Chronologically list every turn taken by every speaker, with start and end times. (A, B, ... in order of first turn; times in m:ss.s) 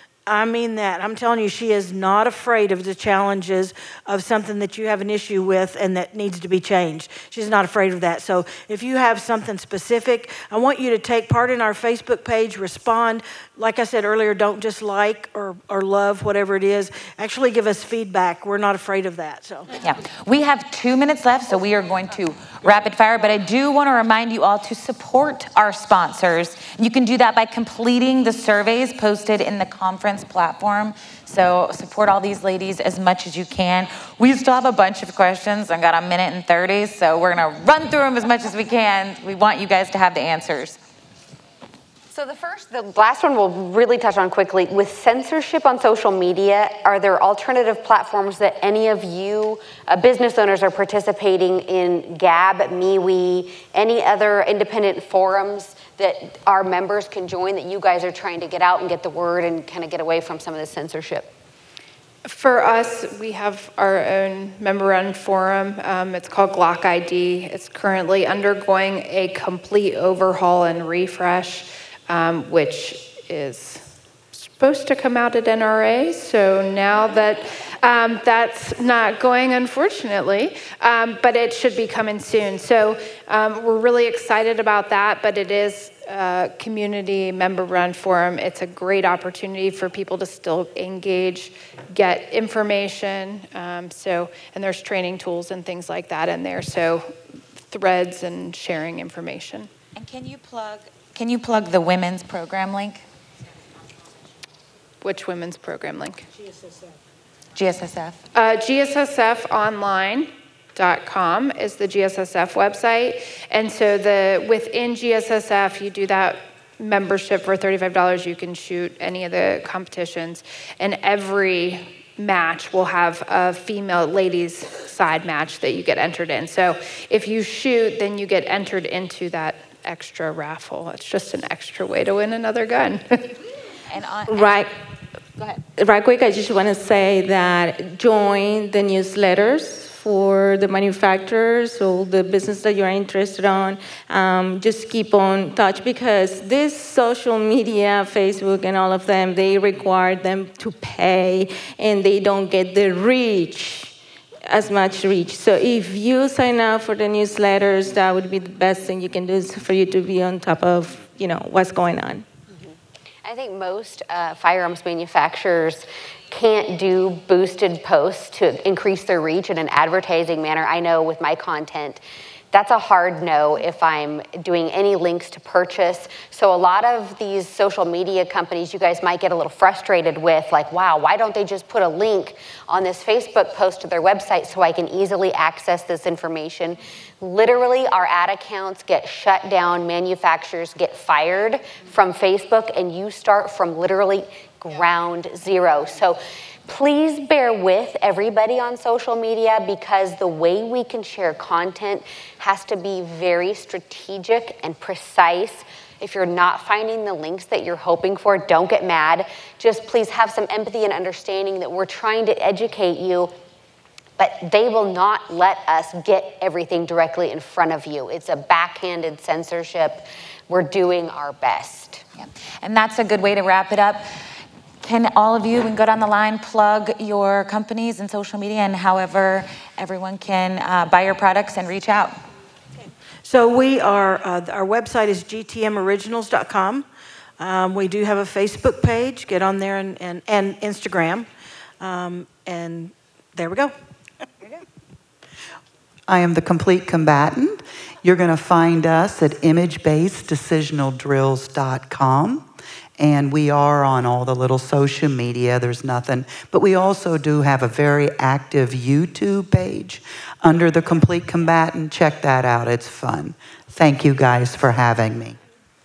0:00.3-0:19.8 A
0:19.8-0:40.8 B
0:42.1-1:01.3 C
1:02.2-1:37.1 D
1:37.7-1:39.7 D
1:40.0-1:43.0 B
1:45.0-1:46.3 D
1:47.6-1:48.2 B
1:48.4-2:13.3 D
2:13.9-2:14.6 B
2:14.3-2:14.7 E
2:15.7-2:34.0 E
2:34.5-2:42.2 E
2:43.2-3:33.3 C
3:34.2-3:42.0 C
3:42.2-3:44.1 B
3:44.8-3:52.2 B
3:53.2-3:56.9 A
3:57.4-4:01.3 A
4:01.8-4:03.7 A
4:06.1-4:25.4 F